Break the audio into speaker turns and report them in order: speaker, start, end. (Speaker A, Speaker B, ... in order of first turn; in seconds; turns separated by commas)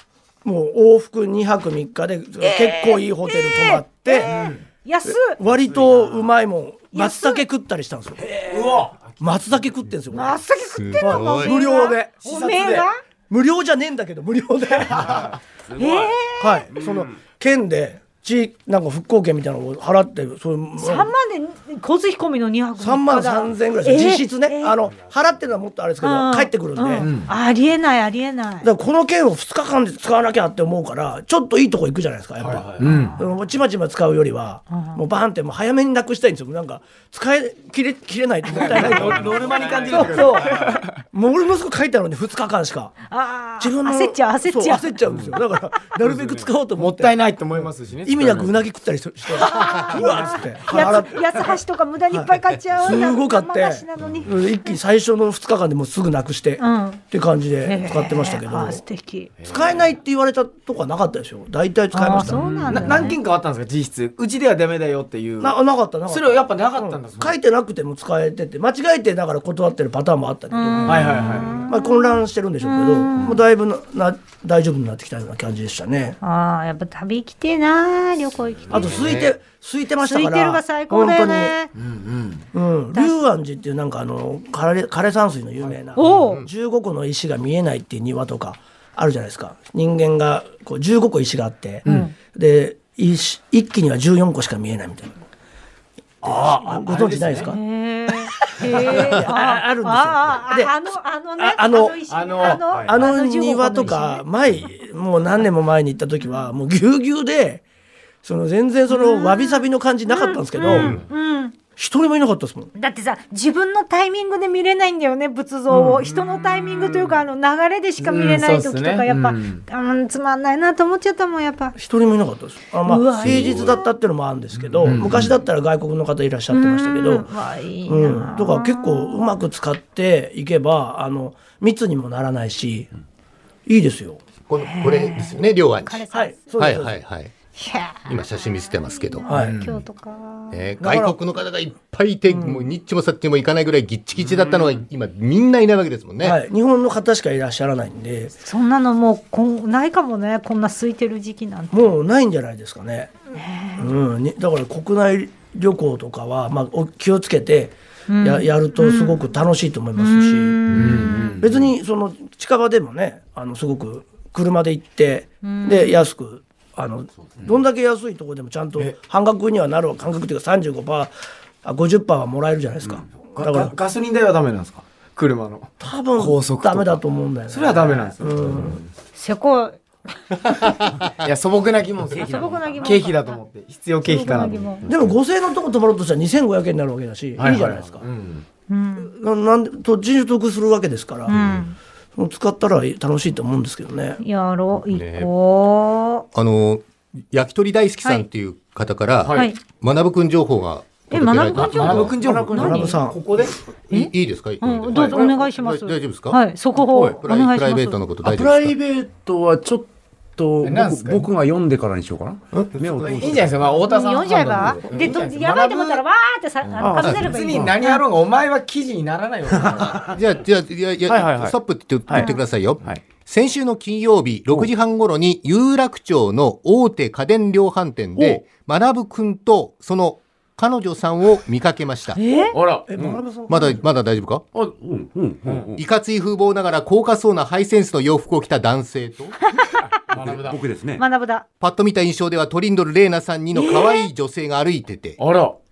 Speaker A: 0.4-4.3, Speaker B: 2.4-5.4, Speaker C: 4.2-4.6, Speaker A: 5.0-10.4, Speaker D: 5.7-6.3, Speaker B: 6.9-7.4, Speaker C: 8.2-9.2, Speaker B: 10.1-13.0, Speaker E: 10.6-11.6, Speaker A: 11.0-12.2, Speaker C: 12.2-12.9, Speaker A: 13.3-15.3, Speaker D: 15.6-17.2, Speaker B: 15.8-16.7, Speaker A: 16.4-21.1, Speaker B: 20.8-24.8, Speaker A: 22.8-27.1, Speaker B: 26.0-28.7, Speaker C: 27.0-27.3, Speaker A: 28.6-43.0, Speaker C: 32.4-33.2, Speaker B: 32.8-33.2, Speaker B: 34.7-35.0, Speaker C: 38.5-41.0, Speaker B: 39.5-40.2, Speaker B: 43.1-45.0, Speaker A: 43.6-47.2, Speaker C: 45.1-45.4, Speaker C: 46.0-48.6, Speaker A: 48.0-51.5, Speaker B: 49.4-54.8, Speaker C: 49.6-50.3, Speaker A: 52.1-58.8, Speaker B: 56.6-57.0, Speaker B: 57.6-59.3, Speaker C: 59.4-59.7, Speaker A: 59.5-63.0, Speaker B: 61.9-63.2, Speaker C: 62.1-67.4, Speaker A: 65.4-76.2, Speaker B: 70.5-73.4, Speaker C: 70.8-71.7, Speaker B: 76.2-79.1, Speaker A: 78.7-81.6, Speaker B: 80.0-81.7, Speaker C: 81.7-82.5, Speaker A: 82.5-95.1, Speaker B: 82.9-83.2, Speaker B: 85.9-86.4, Speaker E: 86.2-86.5, Speaker C: 91.8-92.1, Speaker B: 91.8-92.1, Speaker C: 96.2-97.5, Speaker A: 96.2-97.6, Speaker B: 97.4-104.2, Speaker A: 98.5-100.7, Speaker A: 101.4-107.6, Speaker C: 102.1-103.1, Speaker B: 106.2-106.5, Speaker A: 108.2-111.0, Speaker B: 108.9-111.5, Speaker E: 110.7-111.0, Speaker A: 111.7-112.7, Speaker B: 112.8-121.8, Speaker C: 115.7-117.2, Speaker C: 118.0-119.6, Speaker A: 121.8-127.3, Speaker B: 122.8-123.9, Speaker C: 124.8-125.3, Speaker B: 126.5-129.3, Speaker A: 127.8-132.9, Speaker A: 133.7-134.2, Speaker E: 134.5-137.3, Speaker B: 134.6-136.5, Speaker A: 136.1-136.9, Speaker B: 137.6-140.6, Speaker E: 138.0-139.3, Speaker A: 139.3-139.7, Speaker C: 139.3-139.8, Speaker E: 140.5-146.4, Speaker A: 140.8-141.1, Speaker A: 142.3-142.6, Speaker A: 146.2-148.3, Speaker B: 148.4-152.0, Speaker A: 151.7-153.2, Speaker B: 153.3-153.9, Speaker A: 153.8-160.8, Speaker B: 158.1-159.2, Speaker B: 160.0-161.4, Speaker C: 160.7-161.7, Speaker A: 161.4-171.1, Speaker B: 165.4-166.0, Speaker A: 171.6-173.7, Speaker C: 173.3-178.9, Speaker A: 175.8-178.8, Speaker B: 179.1-180.6, Speaker C: 181.2-185.2, Speaker D: 182.1-183.1, Speaker B: 182.2-183.4, Speaker B: 184.0-184.8, Speaker A: 184.8-188.1, Speaker C: 187.4-188.4, Speaker B: 188.7-189.1, Speaker A: 189.0-191.4, Speaker B: 191.3-191.8, Speaker A: 192.2-194.2, Speaker B: 194.2-196.3, Speaker E: 194.9-195.3, Speaker E: 196.3-202.2, Speaker C: 199.2-199.5, Speaker B: 199.3-199.6, Speaker B: 201.1-203.0, Speaker C: 201.5-203.6, Speaker A: 202.2-203.2, Speaker E: 203.9-206.4, Speaker B: 203.9-208.0, Speaker C: 204.9-205.3, Speaker E: 206.9-208.8, Speaker C: 206.9-207.2, Speaker C: 208.3-209.8, Speaker D: 210.4-213.5, Speaker C: 210.4-211.3, Speaker E: 212.5-213.4, Speaker C: 212.9-216.0, Speaker B: 213.8-218.0, Speaker C: 216.8-220.2, Speaker D: 219.7-220.0, Speaker E: 219.8-232.2, Speaker C: 221.1-221.5, Speaker D: 221.3-221.5, Speaker C: 222.1-223.0, Speaker B: 222.1-222.4, Speaker B: 232.2-232.6, Speaker C: 232.5-232.9, Speaker A: 232.9-233.8, Speaker E: 233.5-234.4, Speaker D: 234.5-235.8, Speaker E: 235.7-239.4, Speaker B: 239.5-240.0, Speaker C: 240.1-240.6, Speaker D: 240.1-241.0, Speaker B: 240.9-241.4, Speaker E: 241.6-245.2, Speaker B: 243.5-244.1, Speaker C: 245.2-245.6